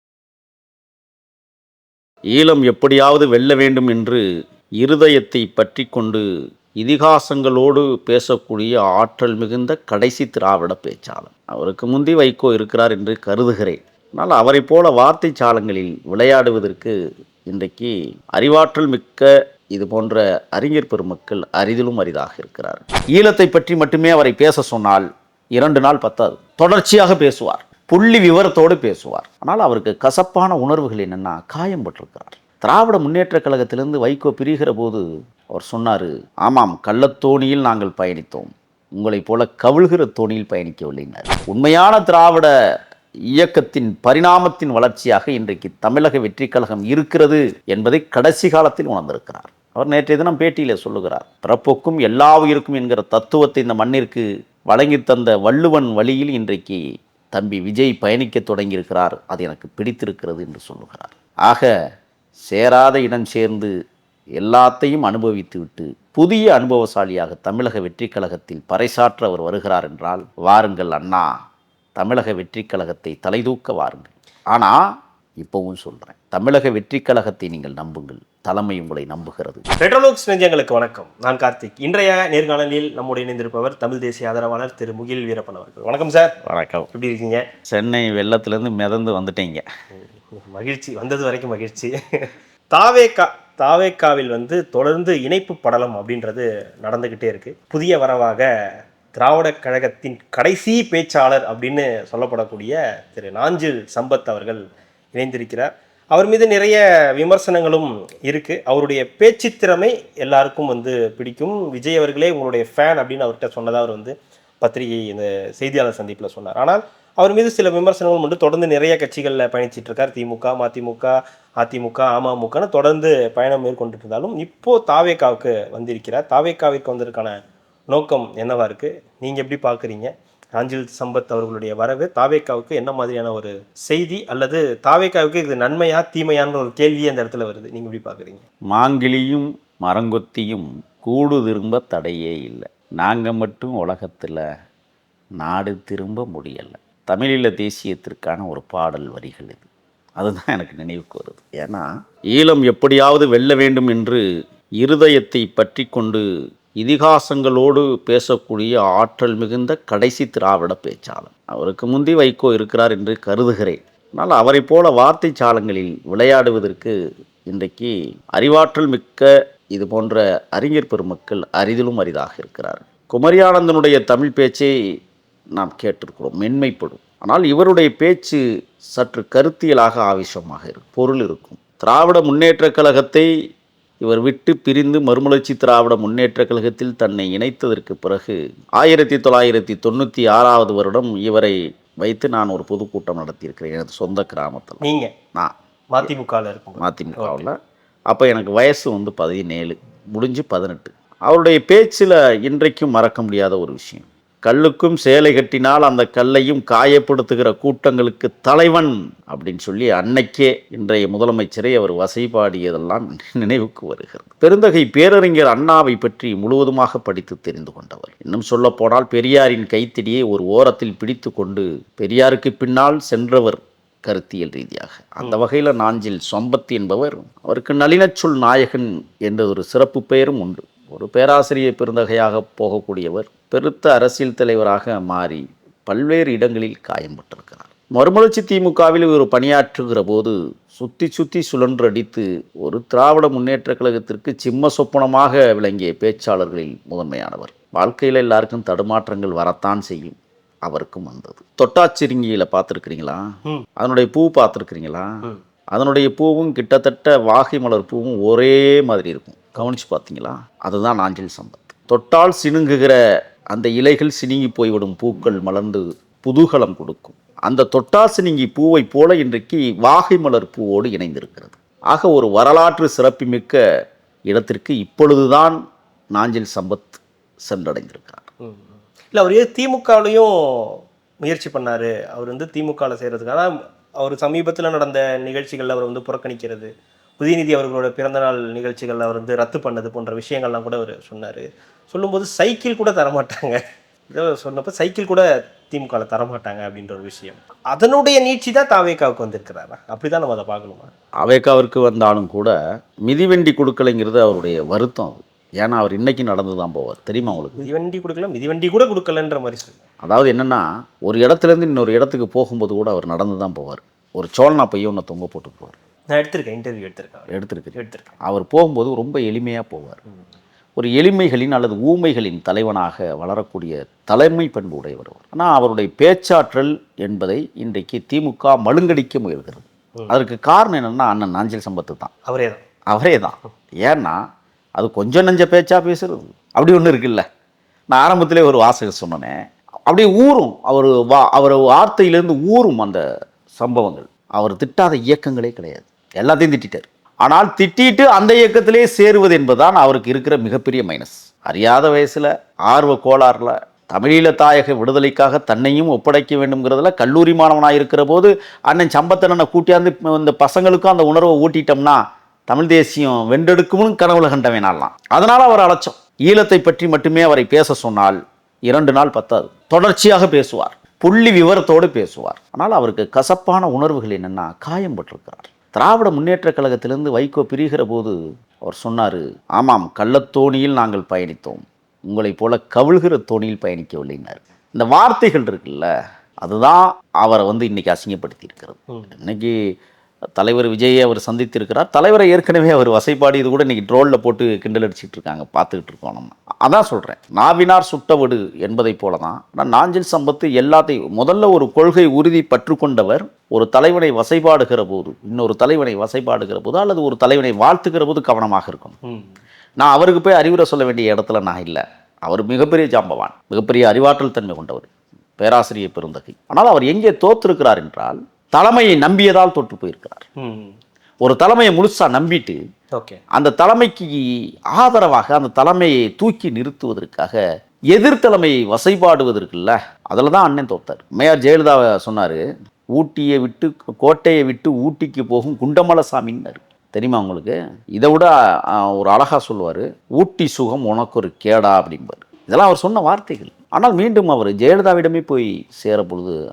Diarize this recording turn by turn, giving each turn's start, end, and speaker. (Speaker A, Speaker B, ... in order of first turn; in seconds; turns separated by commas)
Speaker A: 2.3-4.2, Speaker A: 4.8-6.2, Speaker A: 6.8-16.9, Speaker A: 17.5-42.5, Speaker A: 43.3-56.8, Speaker A: 57.3-61.7, Speaker A: 62.5-63.7, Speaker A: 64.4-71.3, Speaker A: 72.0-74.8, Speaker A: 75.4-79.6, Speaker B: 79.8-86.3, Speaker A: 86.5-86.9, Speaker B: 86.9-87.5, Speaker A: 87.7-89.6, Speaker B: 90.3-98.5, Speaker B: 99.1-104.6, Speaker B: 105.1-127.3, Speaker B: 127.9-138.4, Speaker A: 138.7-144.4, Speaker A: 145.4-149.7, Speaker A: 150.2-154.2, Speaker A: 154.8-156.2, Speaker A: 156.8-166.9, Speaker A: 167.5-174.7, Speaker A: 175.6-178.4, Speaker A: 178.9-183.3, Speaker A: 184.0-195.5, Speaker B: 194.8-195.1, Speaker B: 195.9-197.5, Speaker A: 196.8-197.6, Speaker A: 198.1-253.2, Speaker A: 253.8-255.1, Speaker A: 255.7-262.9, Speaker A: 263.5-273.6, Speaker A: 274.3-275.6, Speaker A: 276.1-278.3, Speaker B: 278.4-300.9, Speaker A: 301.2-302.5, Speaker A: 303.1-307.7, Speaker B: 307.4-309.8, Speaker A: 310.0-315.8, Speaker B: 316.1-318.1, Speaker A: 317.3-320.0, Speaker A: 320.8-332.1, Speaker B: 332.2-332.6, Speaker A: 332.9-334.2, Speaker A: 334.8-337.2, Speaker A: 337.9-339.4, Speaker A: 339.9-343.0, Speaker A: 343.5-385.9, Speaker A: 386.4-389.6, Speaker A: 390.4-408.9, Speaker B: 409.0-409.3, Speaker A: 409.8-420.2, Speaker B: 420.4-420.7, Speaker A: 421.2-422.6, Speaker A: 423.3-427.4, Speaker A: 427.9-432.4, Speaker A: 432.9-446.4